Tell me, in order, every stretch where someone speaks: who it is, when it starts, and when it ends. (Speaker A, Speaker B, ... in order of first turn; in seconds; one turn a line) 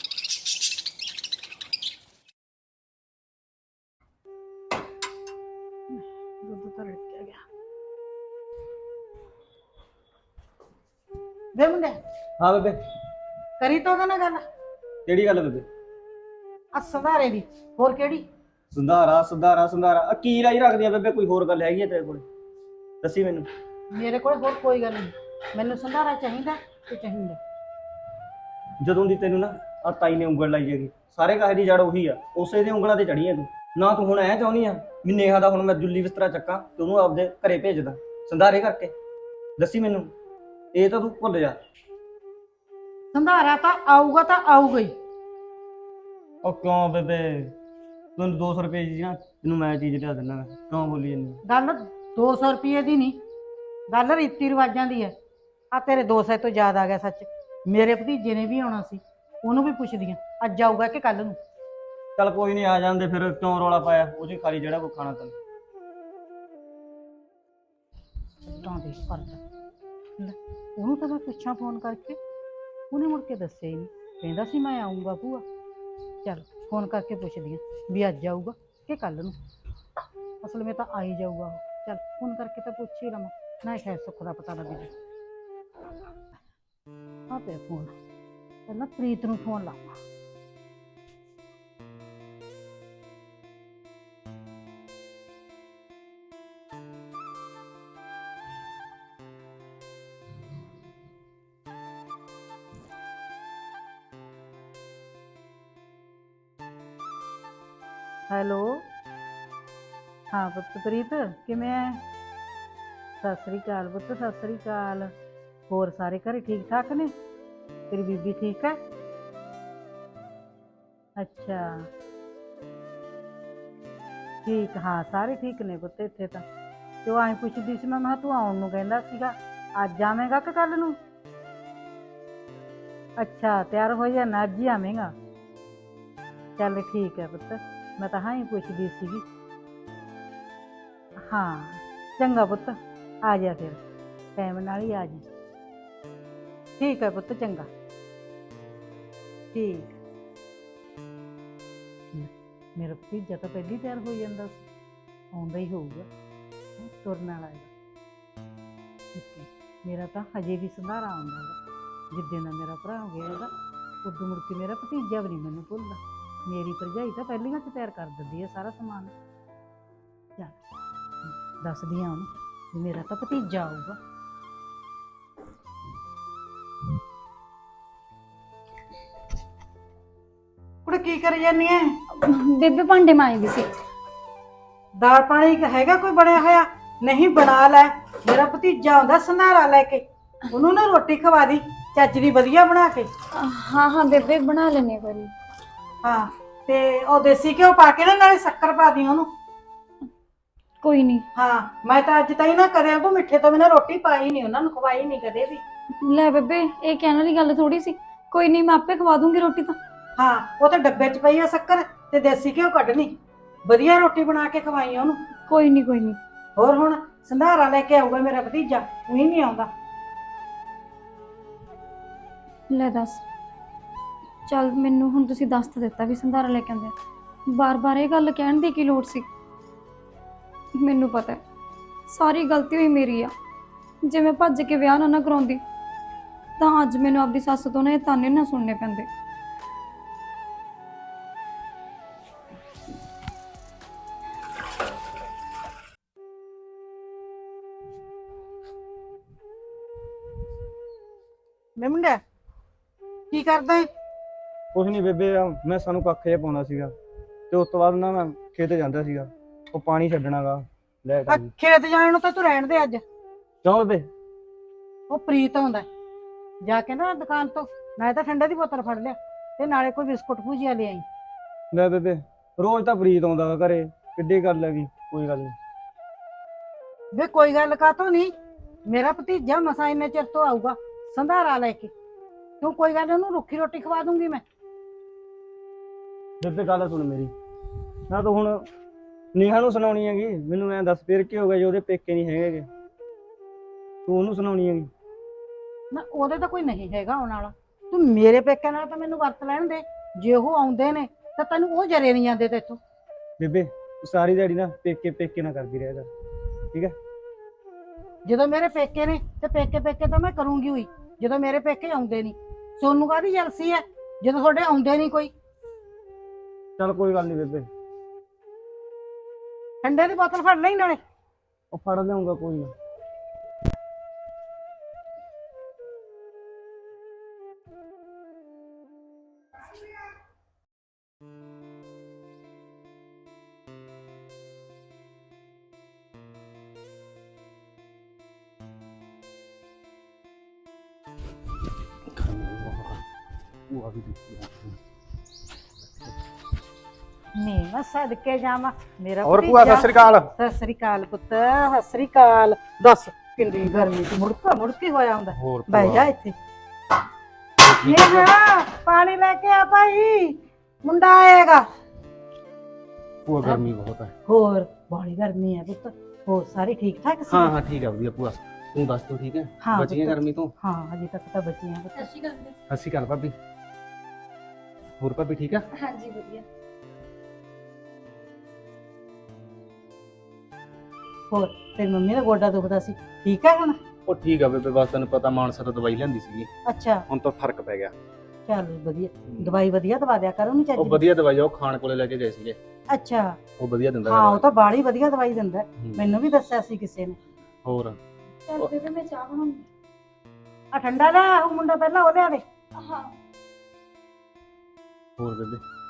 Speaker A: 5.9-7.4
Speaker A: 11.6-12.0
Speaker B: 12.4-12.8
Speaker A: 13.6-14.4
Speaker B: 15.1-15.7
Speaker A: 16.7-18.2
Speaker B: 18.7-22.2
Speaker B: 23.0-23.5
Speaker A: 23.9-27.4
Speaker B: 28.8-38.9
Speaker B: 39.6-40.1
Speaker B: 40.7-41.6
Speaker A: 43.1-44.9
Speaker B: 46.4-47.5
Speaker B: 48.2-51.4
Speaker A: 51.5-53.2
Speaker A: 53.9-55.1
Speaker A: 55.7-61.4
Speaker B: 62.2-65.3
Speaker A: 68.5-69.4
Speaker A: 70.2-72.2
Speaker A: 72.9-75.4
Speaker A: 76.2-79.3
Speaker A: 80.4-84.9
Speaker A: 87.3-87.9
Speaker A: 88.7-89.9
Speaker A: 108.3-108.9
Speaker A: 110.3-112.0
Speaker A: 113.2-115.1
Speaker A: 115.7-117.1
Speaker A: 117.9-118.8
Speaker A: 121.2-121.9
Speaker A: 124.5-126.5
Speaker A: 127.0-131.0
Speaker A: 133.2-135.1
Speaker A: 136.6-139.2
Speaker A: 141.2-143.8
Speaker A: 144.4-145.2
Speaker A: 146.8-147.7
Speaker A: 149.5-150.0
Speaker A: 152.1-154.7
Speaker A: 155.3-156.1
Speaker A: 156.8-157.7
Speaker A: 159.2-161.6
Speaker A: 162.1-163.5
Speaker A: 164.0-169.1
Speaker A: 171.2-174.0
Speaker A: 180.9-182.0
Speaker C: 182.1-183.7
Speaker A: 185.0-193.1
Speaker C: 193.3-195.3
Speaker A: 196.0-199.3
Speaker C: 200.8-201.2
Speaker A: 201.3-205.6
Speaker C: 206.0-209.8
Speaker A: 210.2-213.1
Speaker A: 213.7-215.2
Speaker C: 215.5-216.2
Speaker A: 216.6-219.7
Speaker C: 222.7-223.2
Speaker C: 224.5-226.9
Speaker C: 227.5-229.3
Speaker C: 230.8-231.4
Speaker C: 232.1-233.3
Speaker C: 234.0-235.6
Speaker C: 236.6-239.1
Speaker A: 251.8-252.2
Speaker A: 253.3-253.9
Speaker B: 254.7-256.9
Speaker B: 257.5-261.5
Speaker A: 261.3-263.0
Speaker B: 263.6-264.1
Speaker A: 265.1-265.9
Speaker A: 266.6-271.1
Speaker B: 271.7-275.6
Speaker A: 277.1-278.3
Speaker A: 278.9-281.9
Speaker A: 282.6-284.4
Speaker B: 286.4-287.3
Speaker B: 288.1-288.6
Speaker B: 289.3-292.7
Speaker B: 294.1-294.9
Speaker A: 295.9-302.8
Speaker B: 303.4-306.1
Speaker A: 308.3-315.3
Speaker B: 316.8-317.7
Speaker A: 319.8-321.0
Speaker B: 321.7-322.7
Speaker D: 342.1-343.0
Speaker D: 343.7-344.8
Speaker A: 347.4-356.4
Speaker D: 349.3-350.2
Speaker D: 355.3-356.1
Speaker D: 357.6-358.3
Speaker A: 357.8-361.7
Speaker D: 363.3-364.1
Speaker A: 364.3-367.5
Speaker D: 367.3-370.5
Speaker A: 369.6-372.1
Speaker C: 372.0-372.6
Speaker D: 372.7-373.4
Speaker D: 375.0-375.7
Speaker C: 375.8-376.4
Speaker A: 381.3-383.8
Speaker D: 384.1-386.5
Speaker A: 386.7-387.0
Speaker D: 387.1-387.9
Speaker A: 388.5-391.0
Speaker D: 389.3-389.6
Speaker D: 390.8-392.6
Speaker A: 392.9-393.4
Speaker D: 393.6-394.5
Speaker A: 394.1-397.2
Speaker D: 395.8-396.1
Speaker D: 397.6-398.0
Speaker C: 398.5-399.7
Speaker A: 400.7-402.4
Speaker C: 402.8-403.1
Speaker D: 405.2-405.6